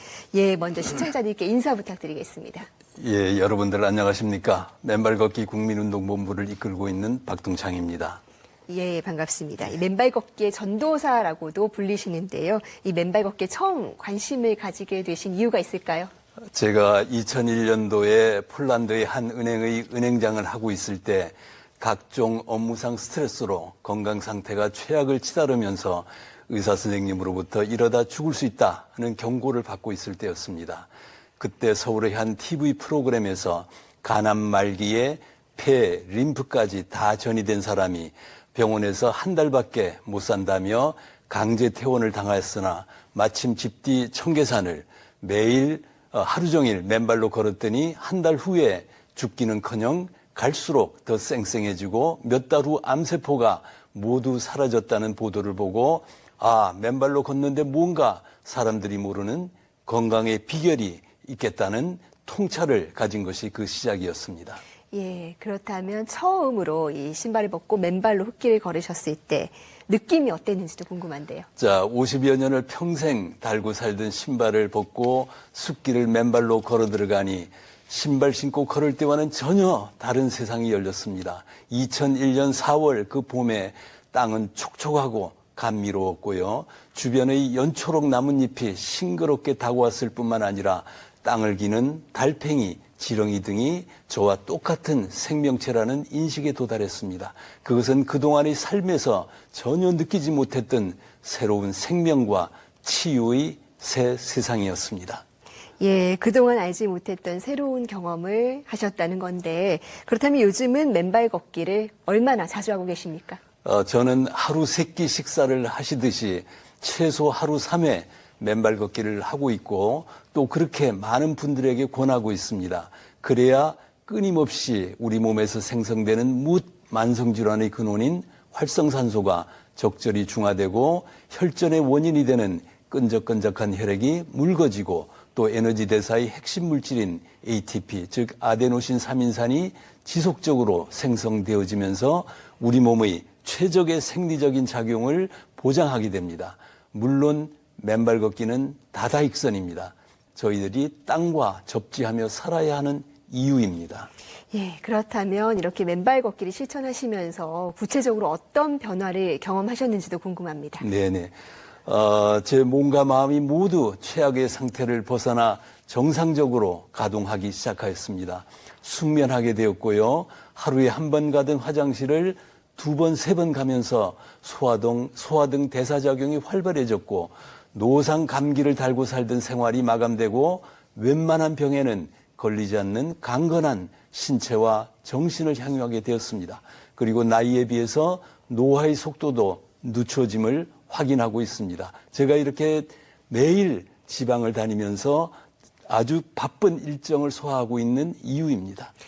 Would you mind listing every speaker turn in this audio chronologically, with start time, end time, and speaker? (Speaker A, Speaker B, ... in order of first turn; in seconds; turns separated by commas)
Speaker A: 0.3-2.7, Speaker B: 3.0-8.2, Speaker A: 8.7-16.1, Speaker B: 16.5-64.6, Speaker A: 64.9-71.5, Speaker B: 71.6-105.2, Speaker A: 105.8-113.4, Speaker B: 113.6-154.1, Speaker A: 154.5-160.9, Speaker B: 160.8-161.3, Speaker B: 161.9-195.4, Speaker B: 195.9-198.9